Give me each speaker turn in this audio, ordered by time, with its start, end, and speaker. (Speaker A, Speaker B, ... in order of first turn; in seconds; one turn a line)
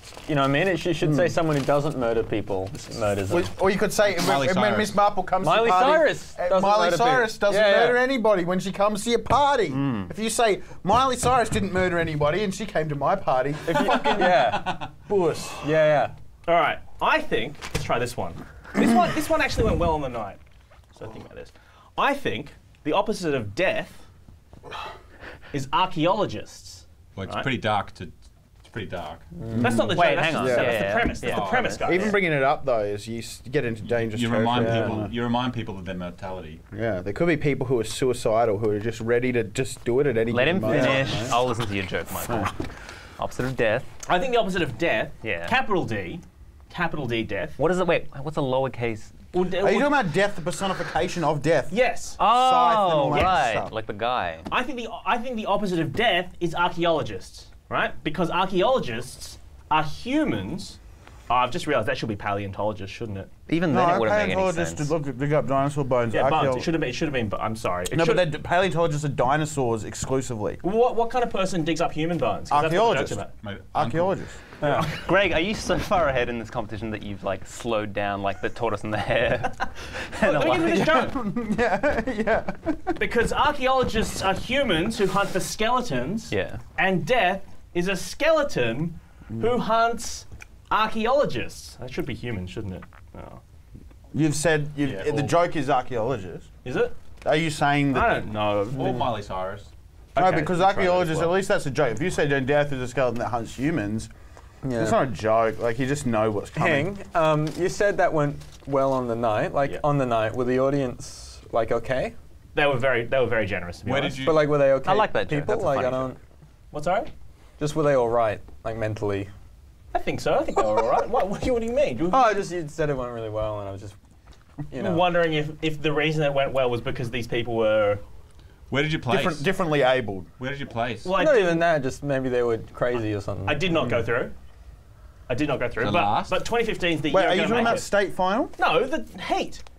Speaker A: 0.2-3.5
Speaker B: 1.0-1.4
Speaker B: 3.3-15.7
Speaker C: 4.1-5.0
Speaker A: 5.4-8.0
Speaker D: 9.7-10.1
Speaker A: 13.6-14.8
Speaker C: 14.3-14.9
Speaker A: 15.6-16.1
Speaker E: 16.4-20.4
Speaker E: 20.9-24.0
Speaker E: 25.5-27.5
Speaker C: 27.1-29.3
Speaker A: 29.4-30.1
Speaker B: 29.5-30.8
Speaker E: 29.6-32.2
Speaker D: 29.9-32.2
Speaker C: 31.2-31.8
Speaker B: 31.8-35.1
Speaker C: 33.9-36.6
Speaker A: 34.5-35.0
Speaker B: 36.7-41.4
Speaker D: 40.3-42.5
Speaker E: 40.7-41.4
Speaker D: 43.2-43.9
Speaker E: 44.0-47.6
Speaker D: 45.2-45.6
Speaker D: 47.6-49.1
Speaker E: 49.3-50.0
Speaker B: 49.6-53.7
Speaker E: 51.7-52.2
Speaker D: 52.2-54.5
Speaker E: 53.1-53.4
Speaker E: 54.5-63.3
Speaker D: 63.5-64.9
Speaker B: 63.7-66.7
Speaker E: 66.1-68.3
Speaker B: 67.9-70.6
Speaker E: 70.6-73.3
Speaker B: 72.5-74.4
Speaker C: 73.4-74.1
Speaker A: 74.6-74.9
Speaker E: 74.6-75.1
Speaker D: 74.9-80.9
Speaker E: 80.2-81.2
Speaker B: 80.5-83.0
Speaker E: 83.0-93.4
Speaker D: 86.3-86.6
Speaker B: 94.1-96.5
Speaker C: 94.8-95.2
Speaker E: 96.6-96.9
Speaker B: 97.2-98.2
Speaker E: 97.9-99.1
Speaker C: 98.7-99.7
Speaker E: 100.1-101.3
Speaker B: 100.2-104.1
Speaker A: 104.6-105.0
Speaker B: 104.7-106.9
Speaker A: 106.5-112.1
Speaker E: 112.5-114.2
Speaker C: 113.8-114.7
Speaker A: 114.2-116.2
Speaker D: 114.8-116.1
Speaker E: 116.7-117.1
Speaker A: 117.6-119.3
Speaker E: 119.9-122.4
Speaker A: 122.1-124.0
Speaker A: 124.7-125.1
Speaker E: 124.8-128.0
Speaker C: 128.7-129.4
Speaker B: 129.1-130.3
Speaker C: 130.4-131.1
Speaker E: 131.0-131.7
Speaker A: 131.1-133.8
Speaker E: 133.4-134.3
Speaker E: 135.3-137.9
Speaker C: 135.8-136.4
Speaker B: 137.1-138.5
Speaker E: 138.6-139.6